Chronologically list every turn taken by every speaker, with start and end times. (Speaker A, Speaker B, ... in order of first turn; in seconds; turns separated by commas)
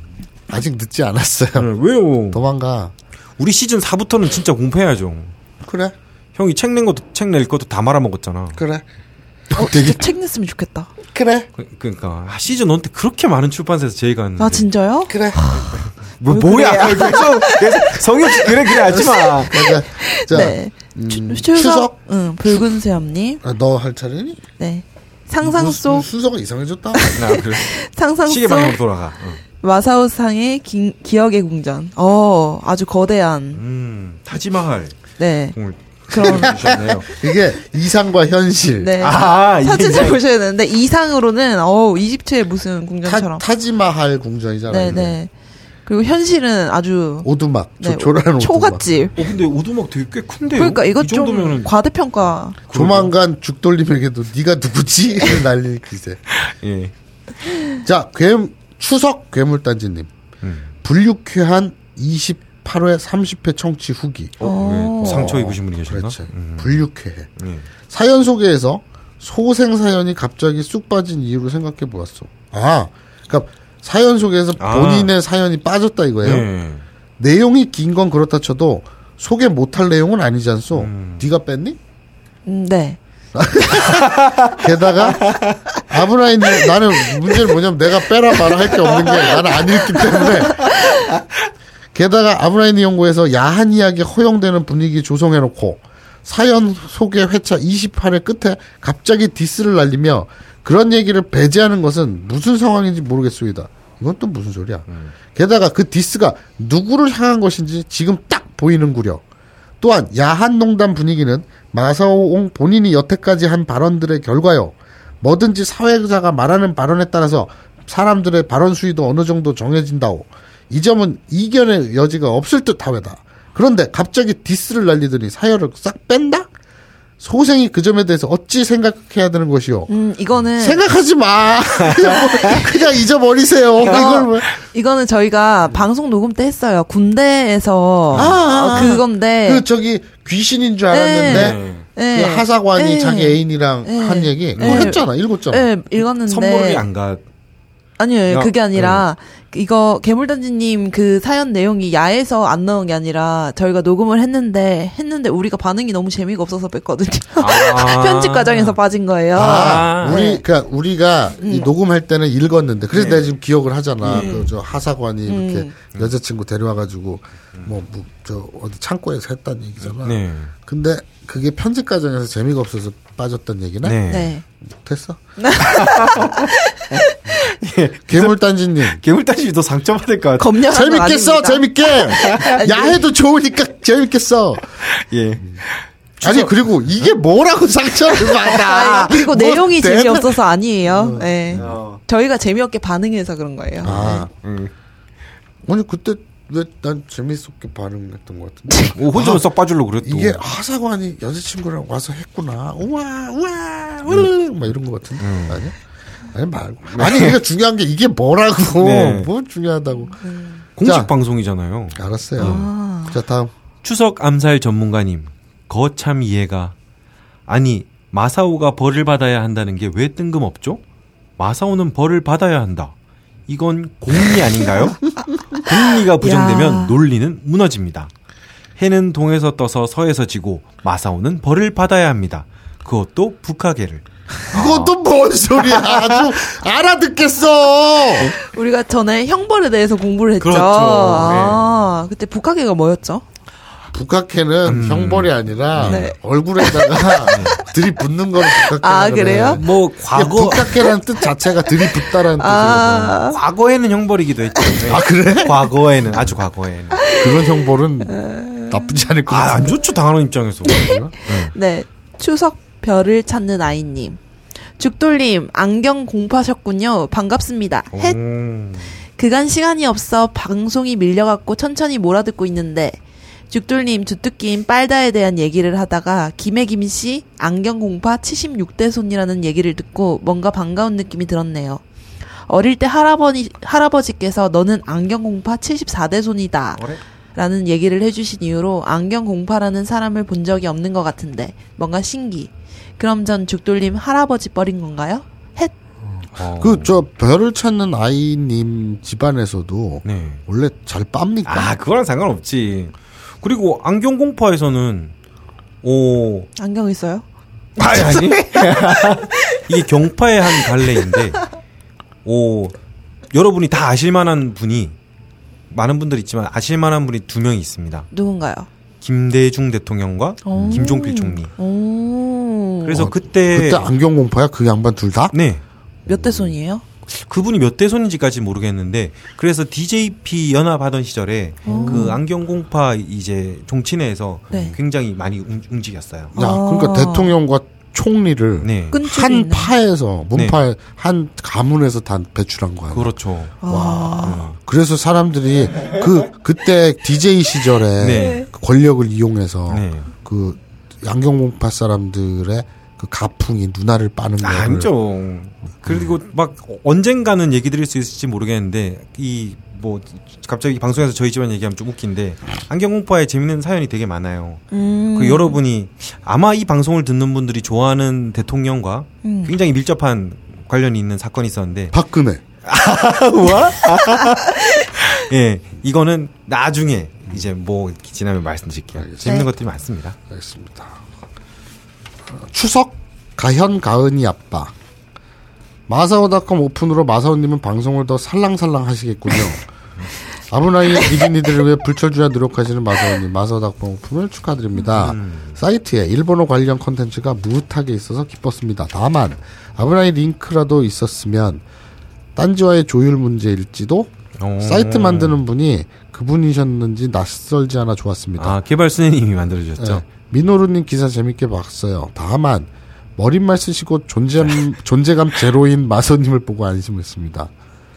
Speaker A: 0.5-1.7, Speaker B: 1.6-2.4, Speaker A: 2.3-2.9, Speaker B: 3.4-5.3, Speaker A: 5.6-5.9, Speaker B: 6.3-8.6, Speaker A: 8.5-8.8, Speaker C: 9.5-10.9, Speaker A: 9.6-9.8, Speaker B: 9.6-9.9, Speaker A: 11.1-11.5, Speaker B: 11.6-14.7, Speaker C: 14.4-23.4, Speaker A: 15.1-15.4, Speaker B: 15.9-19.6, Speaker A: 19.4-21.9, Speaker A: 23.4-24.4, Speaker C: 24.6-26.1, Speaker A: 25.4-27.2, Speaker C: 26.9-28.8, Speaker B: 27.1-27.7, Speaker B: 28.2-29.4, Speaker C: 29.6-33.6, Speaker B: 33.5-35.0, Speaker C: 35.2-35.5, Speaker B: 35.5-37.1, Speaker C: 36.1-36.9, Speaker A: 36.2-39.0, Speaker C: 38.8-43.4, Speaker B: 39.0-40.2, Speaker A: 43.0-45.2, Speaker C: 44.7-45.3, Speaker C: 45.9-47.3, Speaker A: 47.2-48.8, Speaker C: 47.8-49.2, Speaker B: 49.2-51.7, Speaker C: 50.5-52.6, Speaker B: 52.7-53.1, Speaker A: 52.7-56.2, Speaker B: 56.3-56.9, Speaker A: 57.8-60.1, Speaker B: 60.4-60.7, Speaker A: 60.8-67.3, Speaker B: 64.4-66.8, Speaker C: 64.4-65.4, Speaker B: 67.4-67.7, Speaker A: 67.9-76.5, Speaker B: 74.6-75.1, Speaker B: 76.2-76.8, Speaker A: 77.2-81.8, Speaker B: 80.7-81.2, Speaker C: 82.5-83.0, Speaker A: 83.3-90.8, Speaker B: 83.9-84.5, Speaker B: 85.2-85.6, Speaker C: 90.6-91.0, Speaker A: 91.9-109.2, Speaker B: 104.9-105.1, Speaker A: 109.8-126.5, Speaker A: 127.2-129.9, Speaker C: 129.9-130.8, Speaker A: 130.6-134.5, Speaker B: 131.9-132.6, Speaker C: 133.8-139.6, Speaker B: 138.1-139.0, Speaker A: 138.1-141.6, Speaker C: 140.9-146.8, Speaker B: 141.2-141.8, Speaker A: 142.1-145.7, Speaker B: 144.6-144.9, Speaker B: 146.2-147.2, Speaker C: 148.0-160.4, Speaker B: 148.3-149.0, Speaker B: 157.4-158.8, Speaker A: 159.3-174.0, Speaker B: 159.3-160.2, Speaker C: 161.4-161.7, Speaker B: 162.9-163.2, Speaker B: 164.0-164.5, Speaker C: 165.3-165.7, Speaker B: 169.9-170.5, Speaker B: 173.8-174.3, Speaker C: 174.1-174.4, Speaker A: 174.6-175.2, Speaker C: 175.4-177.5, Speaker B: 175.6-176.4, Speaker B: 177.4-180.6, Speaker A: 178.1-179.0, Speaker C: 180.4-183.0, Speaker A: 180.7-184.6, Speaker B: 182.2-182.6, Speaker B: 184.8-186.5, Speaker A: 186.2-191.8, Speaker B: 188.2-188.6, Speaker C: 188.6-194.2, Speaker B: 191.5-192.0, Speaker A: 193.8-194.3, Speaker B: 193.8-194.7, Speaker A: 195.6-199.4, Speaker C: 198.7-198.9, Speaker B: 198.9-200.4, Speaker A: 200.0-205.7, Speaker B: 205.2-205.7, Speaker A: 206.3-210.2, Speaker B: 206.9-207.4, Speaker B: 208.8-209.3, Speaker C: 210.2-210.6, Speaker B: 210.8-212.7, Speaker A: 210.8-211.1, Speaker A: 211.9-213.5, Speaker C: 212.4-213.2, Speaker B: 213.8-216.7, Speaker B: 217.5-220.8, Speaker B: 221.4-222.9, Speaker B: 223.5-228.1, Speaker C: 226.2-227.0, Speaker B: 228.8-234.9, Speaker A: 234.5-238.3, Speaker B: 235.6-236.3, Speaker C: 238.3-243.2, Speaker B: 240.4-241.7, Speaker A: 243.9-253.2, Speaker B: 244.7-246.1, Speaker C: 245.8-247.5, Speaker B: 247.3-247.6, Speaker C: 248.5-249.6, Speaker B: 249.5-250.9, Speaker C: 252.4-253.4, Speaker B: 253.1-257.1, Speaker C: 254.6-254.9, Speaker A: 254.8-255.7, Speaker A: 257.1-259.8, Speaker C: 258.1-258.9, Speaker B: 259.3-261.5, Speaker C: 260.7-264.2, Speaker A: 260.7-261.1, Speaker C: 264.8-268.2, Speaker B: 267.9-269.0, Speaker C: 269.1-273.0, Speaker C: 273.5-281.8, Speaker C: 282.5-286.8, Speaker C: 287.3-295.7, Speaker A: 296.1-301.7, Speaker B: 296.4-296.9, Speaker B: 300.0-300.4, Speaker B: 301.4-305.1, Speaker B: 305.8-306.5, Speaker C: 306.6-307.2, Speaker B: 307.8-311.5, Speaker C: 307.8-308.8, Speaker B: 312.2-312.7, Speaker B: 313.3-314.9, Speaker B: 315.7-318.1, Speaker C: 318.1-318.7, Speaker B: 319.0-321.5, Speaker C: 320.4-323.1, Speaker A: 320.5-320.9, Speaker B: 322.8-323.9, Speaker A: 322.9-325.3, Speaker B: 325.3-325.6, Speaker A: 326.1-326.5, Speaker C: 326.1-326.8, Speaker B: 327.1-336.3, Speaker C: 331.6-332.2, Speaker A: 331.7-332.1, Speaker C: 334.5-334.8, Speaker C: 336.3-337.3, Speaker A: 336.3-343.1, Speaker B: 338.6-339.0, Speaker C: 338.9-339.7, Speaker B: 342.9-344.6, Speaker C: 343.6-344.4, Speaker A: 343.6-354.9, Speaker B: 348.0-348.4, Speaker C: 348.1-348.5, Speaker B: 349.7-350.1, Speaker B: 354.4-371.9, Speaker C: 364.7-365.6, Speaker C: 369.2-369.5, Speaker A: 371.9-372.4, Speaker B: 372.6-380.2, Speaker A: 379.0-379.2, Speaker C: 379.2-379.5, Speaker A: 380.3-381.0, Speaker A: 382.3-384.7, Speaker A: 385.9-389.6, Speaker A: 390.5-401.6, Speaker B: 394.9-395.6, Speaker A: 402.4-408.6, Speaker B: 404.4-405.4, Speaker B: 408.4-410.0, Speaker A: 409.8-417.5